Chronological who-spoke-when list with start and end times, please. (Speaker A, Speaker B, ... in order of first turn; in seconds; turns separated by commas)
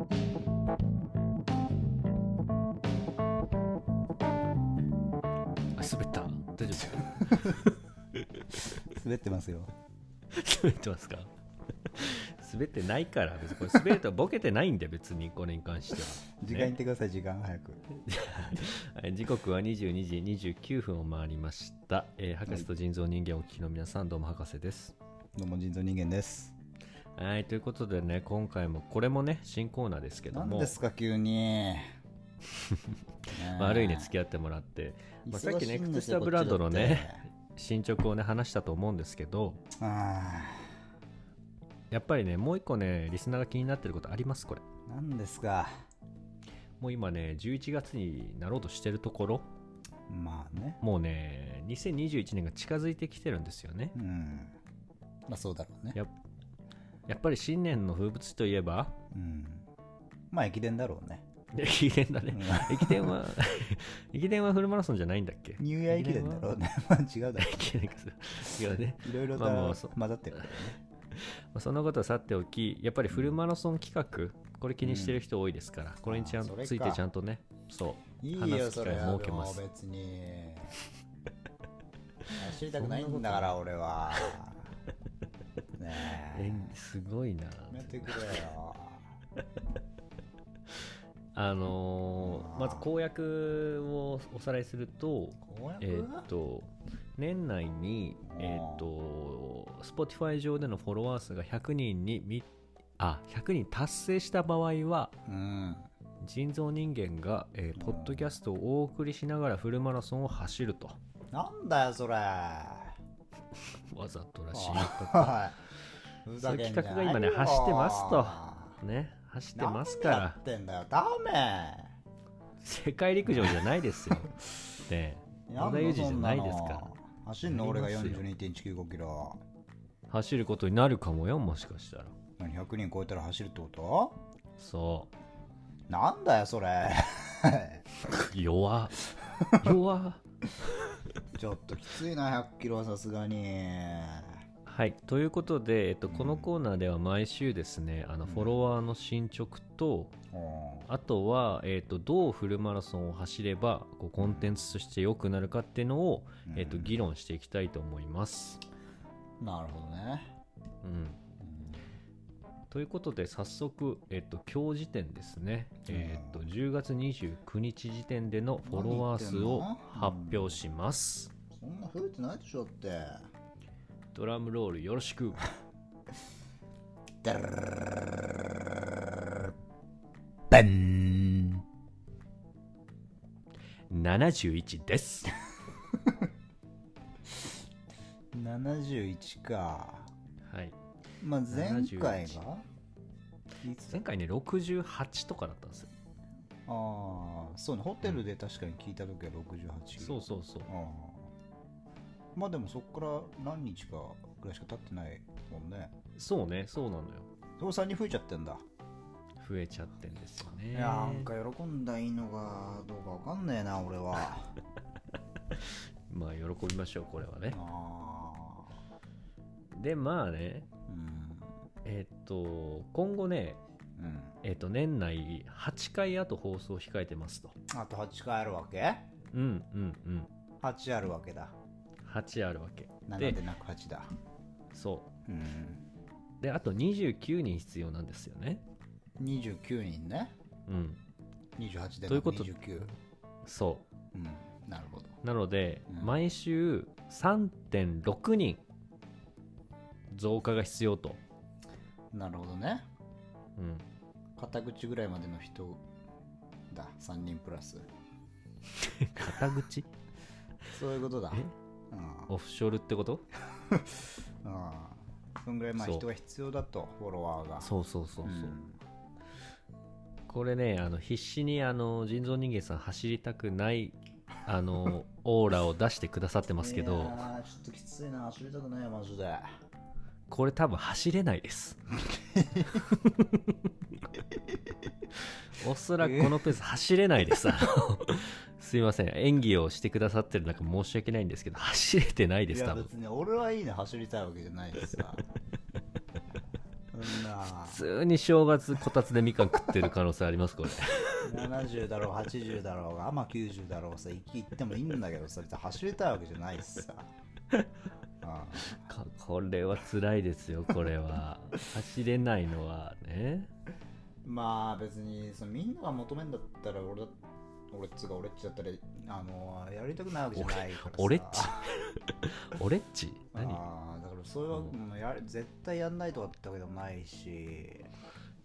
Speaker A: 5.8-7.8, Speaker B: 6.8-7.6, Speaker A: 8.3-8.7, Speaker B: 8.7-9.7, Speaker A: 10.3-11.3, Speaker A: 11.8-16.7, Speaker B: 16.4-17.8, Speaker A: 17.9-24.9, Speaker B: 25.4-26.6, Speaker A: 27.1-30.7, Speaker B: 30.3-31.9, Speaker A: 32.6-39.6, Speaker B: 33.3-34.1, Speaker B: 35.2-37.2, Speaker B: 39.8-40.7, Speaker A: 41.9-44.6, Speaker B: 44.9-45.7, Speaker A: 46.8-49.5, Speaker B: 50.1-50.8, Speaker A: 50.8-53.9, Speaker B: 53.9-54.5, Speaker B: 55.3-56.0, Speaker A: 57.1-59.0, Speaker B: 59.1-59.7, Speaker B: 60.3-61.2, Speaker A: 61.5-66.6, Speaker B: 62.3-63.2, Speaker B: 65.6-67.8, Speaker A: 67.4-79.6, Speaker B: 69.0-70.8, Speaker B: 74.8-75.2, Speaker B: 76.0-77.0, Speaker B: 78.2-80.8, Speaker B: 82.3-84.7, Speaker A: 82.7-83.5, Speaker B: 85.8-86.7, Speaker A: 86.3-88.3, Speaker B: 87.7-89.0, Speaker A: 91.3-102.5, Speaker B: 92.2-92.9, Speaker B: 95.4-96.3, Speaker B: 98.3-98.8, Speaker A: 103.0-105.1, Speaker B: 105.2-105.9, Speaker A: 106.2-111.0, Speaker B: 107.8-108.3, Speaker B: 111.3-113.0, Speaker A: 113.5-115.4, Speaker B: 114.5-115.5, Speaker B: 116.2-118.8, Speaker A: 116.4-120.4, Speaker B: 119.5-121.9, Speaker A: 122.6-124.3, Speaker B: 123.2-123.6, Speaker A: 124.9-126.9, Speaker B: 125.5-129.4, Speaker A: 127.5-128.2, Speaker A: 130.1-132.1, Speaker B: 132.4-134.2, Speaker A: 134.6-135.1, Speaker B: 135.9-137.8, Speaker A: 138.0-140.2, Speaker B: 139.4-139.7, Speaker B: 141.3-144.4, Speaker A: 144.7-150.2, Speaker B: 146.1-146.5, Speaker B: 148.2-148.6, Speaker B: 150.3-150.9, Speaker A: 150.9-158.6, Speaker B: 154.2-154.6, Speaker B: 156.5-157.0, Speaker B: 159.4-160.3, Speaker A: 160.8-161.2, Speaker B: 161.4-161.8, Speaker A: 162.7-171.3, Speaker B: 165.9-166.4, Speaker B: 168.6-170.6, Speaker B: 171.5-173.2, Speaker A: 174.1-175.5, Speaker B: 177.2-179.5, Speaker B: 180.5-181.6, Speaker A: 183.9-185.3, Speaker B: 188.3-190.1, Speaker A: 190.4-190.8, Speaker B: 191.2-192.6, Speaker A: 191.5-192.4, Speaker B: 193.6-194.0, Speaker A: 193.9-195.9, Speaker B: 196.7-201.3, Speaker A: 200.0-200.7, Speaker B: 202.3-205.9, Speaker A: 206.2-207.3, Speaker B: 207.6-208.6, Speaker A: 209.4-211.3, Speaker B: 210.7-214.5, Speaker A: 215.5-217.6, Speaker B: 217.5-218.7, Speaker A: 219.7-220.7, Speaker B: 220.9-221.5, Speaker A: 221.8-223.6, Speaker B: 224.0-224.4, Speaker A: 224.4-227.5, Speaker B: 227.7-229.1, Speaker A: 229.3-230.3, Speaker B: 230.6-231.5, Speaker A: 232.0-233.4, Speaker B: 233.1-234.1, Speaker A: 234.7-235.1, Speaker B: 235.3-235.8, Speaker A: 236.4-238.6, Speaker B: 239.2-240.3, Speaker A: 240.7-241.0, Speaker B: 241.6-242.9, Speaker A: 242.1-242.6, Speaker A: 243.4-243.8, Speaker B: 244.1-245.2, Speaker A: 245.2-248.6, Speaker B: 245.9-246.1, Speaker A: 250.1-251.2, Speaker B: 252.1-252.8, Speaker A: 253.6-253.8, Speaker B: 254.4-255.8, Speaker B: 256.7-257.9, Speaker A: 258.8-259.9, Speaker B: 260.7-262.3, Speaker A: 262.3-263.2, Speaker B: 263.5-267.7, Speaker A: 265.8-266.1, Speaker A: 267.6-268.5, Speaker B: 268.2-268.8, Speaker A: 270.3-277.2, Speaker B: 276.6-279.4, Speaker A: 280.3-281.8, Speaker B: 282.1-282.8, Speaker A: 282.7-283.5, Speaker A: 285.5-292.9, Speaker B: 286.0-286.4, Speaker B: 292.5-295.2, Speaker B: 296.9-297.8, Speaker A: 297.6-301.2, Speaker B: 301.2-307.1, Speaker B: 308.2-308.9, Speaker A: 308.8-313.5, Speaker B: 314.2-317.1, Speaker B: 317.7-321.7, Speaker A: 320.3-323.6, Speaker B: 323.3-327.9